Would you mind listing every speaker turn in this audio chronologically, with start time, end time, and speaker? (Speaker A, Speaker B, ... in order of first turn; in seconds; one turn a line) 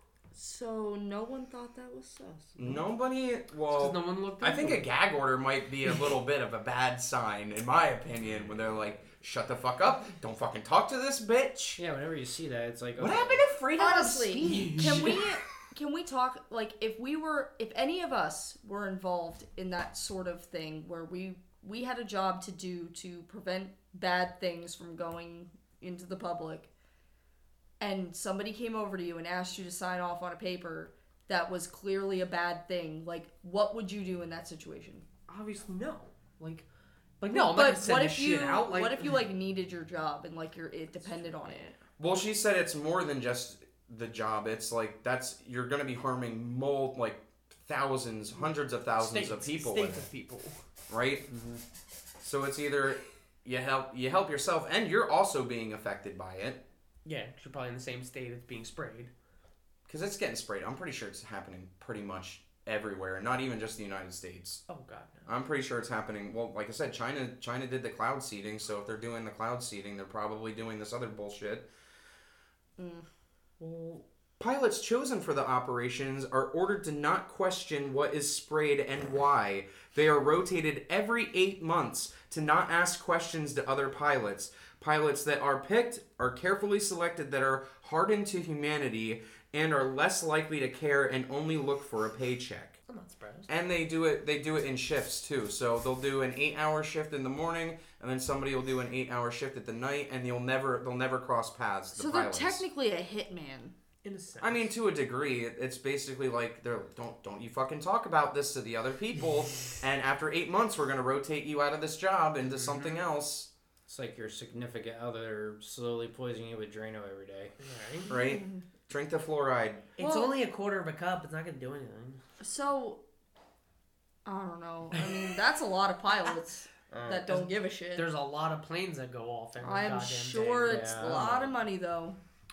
Speaker A: 0.3-2.7
Speaker B: 2.6-11.8
Speaker C: 3.7-4.9
Speaker D: 11.8-13.4
Speaker B: 13.0-15.2
Speaker A: 13.8-26.7
Speaker C: 14.4-15.2
Speaker A: 27.8-35.0
Speaker C: 35.3-36.6
Speaker C: 37.2-39.2
Speaker A: 37.3-41.7
Speaker C: 41.0-41.8
Speaker B: 42.0-50.1
Speaker C: 49.0-50.5
Speaker B: 50.9-51.3
Speaker D: 51.3-51.6
Speaker B: 52.2-56.6
Speaker C: 57.0-59.1
Speaker B: 59.9-64.6
Speaker C: 64.7-65.3
Speaker B: 65.3-71.7
Speaker A: 72.8-73.0
Speaker B: 73.6-92.8
Speaker C: 92.9-93.5
Speaker B: 93.5-102.6
Speaker A: 101.9-103.7
Speaker C: 104.0-104.7
Speaker B: 104.4-113.5
Speaker C: 112.5-113.0
Speaker D: 113.9-117.5
Speaker C: 117.6-118.1
Speaker B: 118.1-119.8
Speaker A: 118.1-118.6
Speaker C: 120.0-122.2
Speaker A: 120.0-120.3
Speaker A: 122.4-123.0
Speaker A: 124.2-128.1
Speaker C: 127.0-130.9
Speaker A: 129.6-132.2
Speaker D: 130.6-131.5